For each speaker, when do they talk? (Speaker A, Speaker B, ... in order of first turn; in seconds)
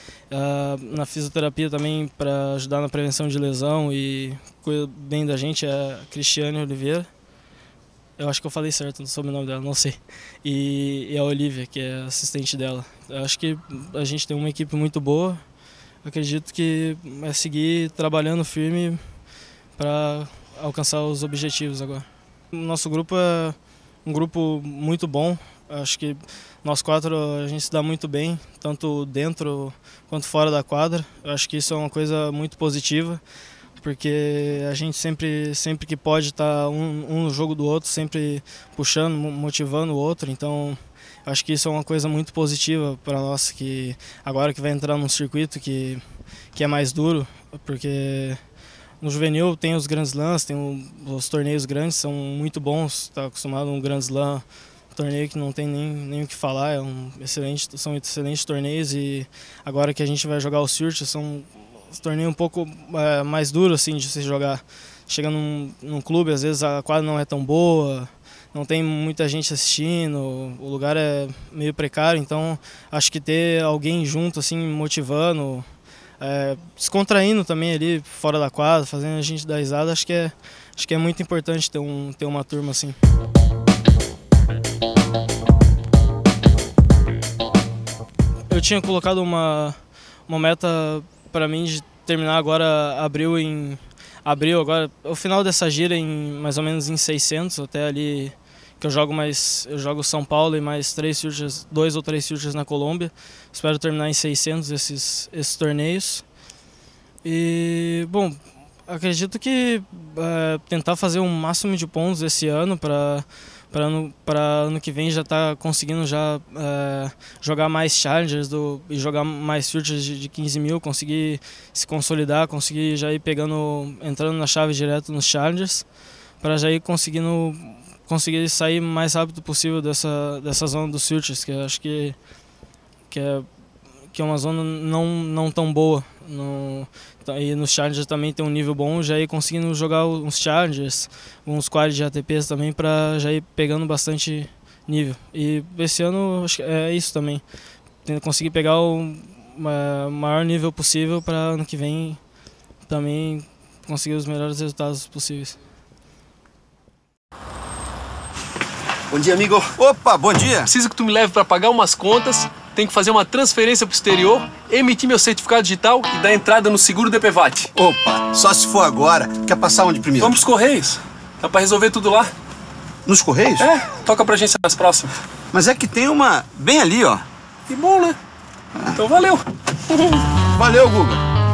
Speaker A: 0.3-7.1, 8.2-15.4, 16.0-19.0, 19.8-33.2, 33.8-46.0, 46.5-48.4, 49.0-75.7, 76.2-83.0, 88.5-106.2, 107.2-125.8, 126.4-132.2, 133.1-133.5, 134.1-147.4, 148.0-152.2, 152.8-155.6
Speaker B: 159.1-160.7, 167.7-170.4, 173.1-173.7, 175.5-177.2, 180.5-181.2
Speaker C: 160.7-167.7, 170.2-172.3, 173.6-175.1, 177.7-178.2, 178.9-179.4